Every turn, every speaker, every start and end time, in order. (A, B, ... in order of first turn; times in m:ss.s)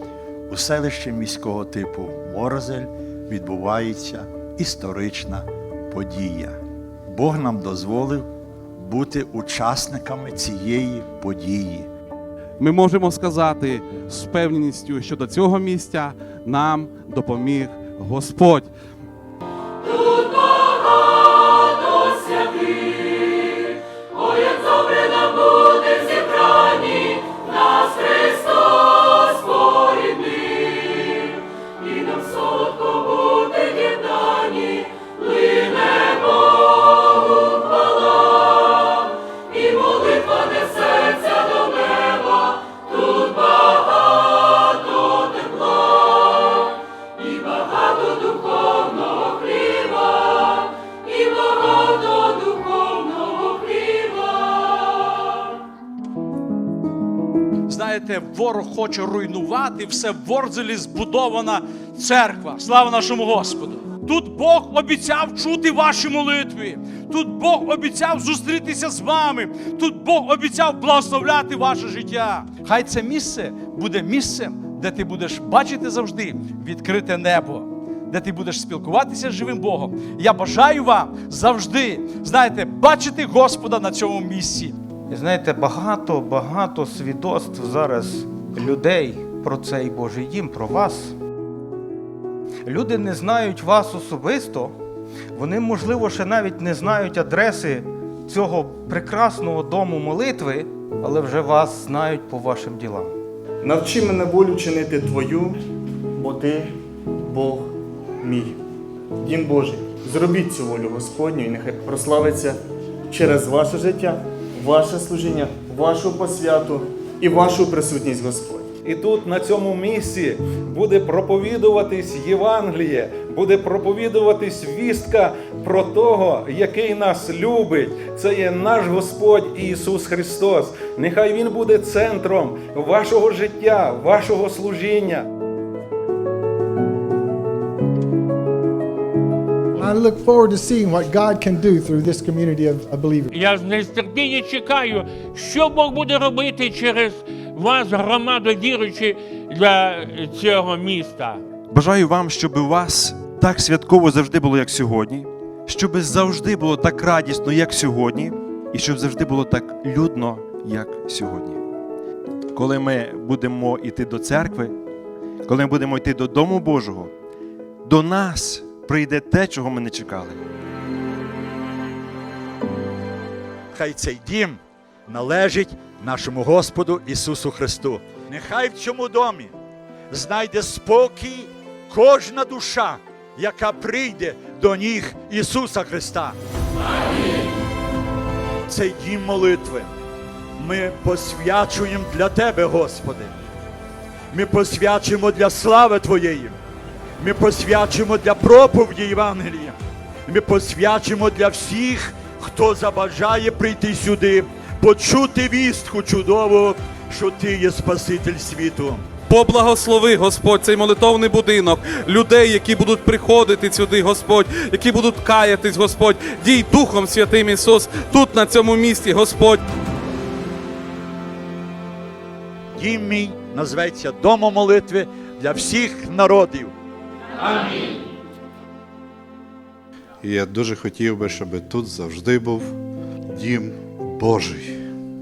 0:00.5-0:11.9 A
0:12.6-0:18.7 B
0:57.7-1:24.8 C
1:25.1-1:31.1 D
1:32.6-1:34.8 D
1:35.3-1:43.1 D
1:43.6-1:45.6 E
1:46.1-1:48.6 E
1:49.2-1:52.6 E
1:53.1-1:58.7 E
1:58.8-2:15.2 F
2:19.7-2:23.3 G
2:23.3-2:31.4 H
2:31.7-2:41.6 I
2:42.5-2:44.7 I
2:45.4-2:47.1 I
2:47.8-2:50.4 I
2:53.7-2:59.6 A
3:00.1-3:06.4 A
3:08.7-3:09.9 A
3:10.6-3:13.3 A
3:14.3-3:16.6 A
3:17.2-3:29.1 A
3:29.3-3:39.6 B
3:42.7-3:46.7 A
3:50.2-3:52.8 J
3:53.3-3:54.8 J